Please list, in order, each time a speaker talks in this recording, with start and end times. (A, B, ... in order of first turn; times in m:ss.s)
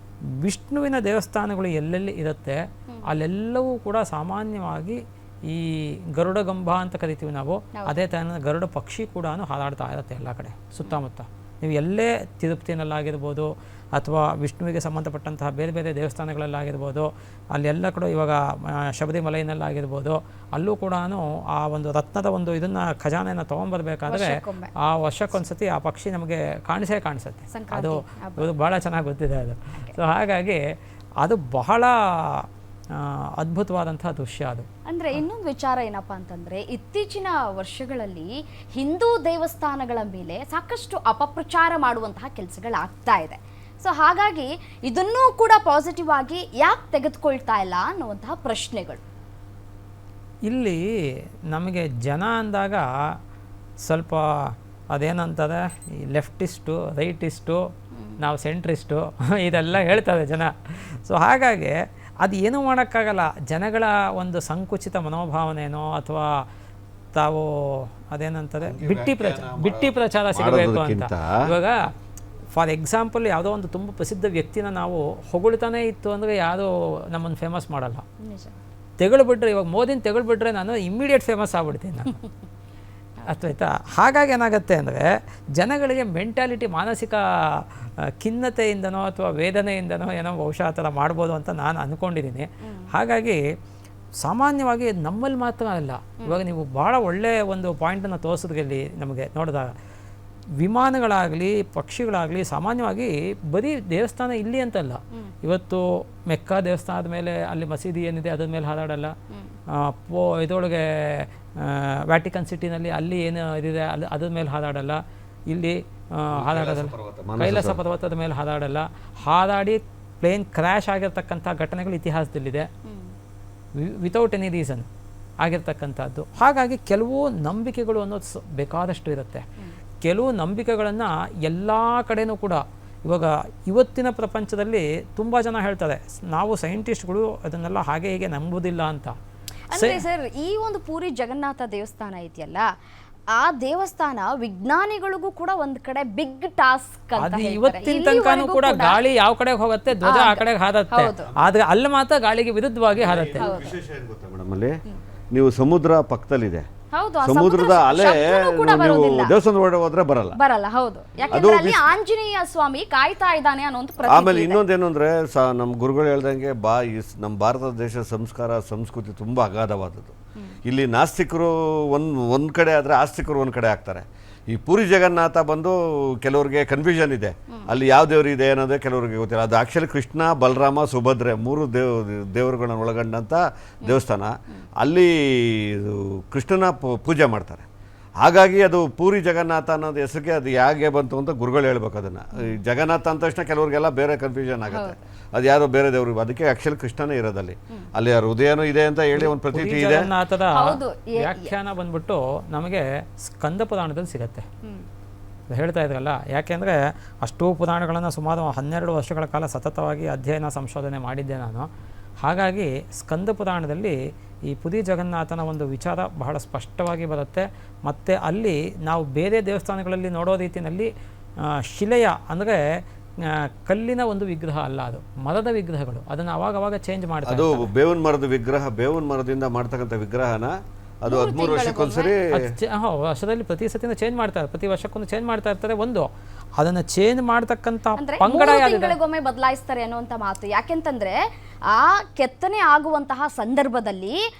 0:00.4-0:30.6 A
0:24.1-0:24.7 B
0:27.5-0:28.4 B
0:31.2-0:34.6 A
0:34.9-0:49.0 B
0:50.5-0:50.8 A
0:51.5-0:52.8 A
0:53.8-0:54.2 A
0:54.9-0:57.6 A
0:58.2-1:06.2 A
1:07.1-1:11.8 A
1:08.6-1:11.4 C
1:12.5-1:18.0 A
1:18.2-1:18.5 B
1:19.0-1:22.2 A
1:23.3-1:25.0 A
1:25.6-1:33.4 A
1:32.6-1:32.9 B
1:34.2-1:39.7 A
1:40.6-1:49.1 A
1:49.7-2:02.7 A
1:56.3-1:57.8 C
2:02.8-2:03.1 B
2:03.8-2:04.9 A
2:05.4-2:09.4 A
2:10.0-2:19.1 A
2:19.7-2:22.6 B
2:19.7-2:20.0 A
2:23.4-2:29.0 B
2:27.2-2:33.5 A
2:30.0-2:31.2 B
2:33.0-2:34.7 C
2:33.4-2:33.8 B
2:35.3-2:36.6 C
2:36.9-2:39.3 B
2:37.2-2:40.3 C
2:40.4-2:44.6 B
2:41.3-2:41.8 C
2:44.0-2:50.1 C
2:50.6-3:07.6 C
3:03.8-3:04.6 B
3:08.2-3:20.1 C
3:14.7-3:15.0 B
3:19.1-3:24.4 A
3:20.5-3:21.5 B
3:25.5-3:31.7 A
3:32.2-3:33.9 A
3:34.5-3:40.9 A
3:41.7-3:42.6 A
3:43.2-3:47.7 A
3:47.2-3:50.5 C
3:51.0-3:52.3 C
3:51.1-3:52.1 B
3:52.3-3:56.1 A
3:56.6-3:59.0 A
3:58.0-4:01.2 B
4:01.7-4:04.2 B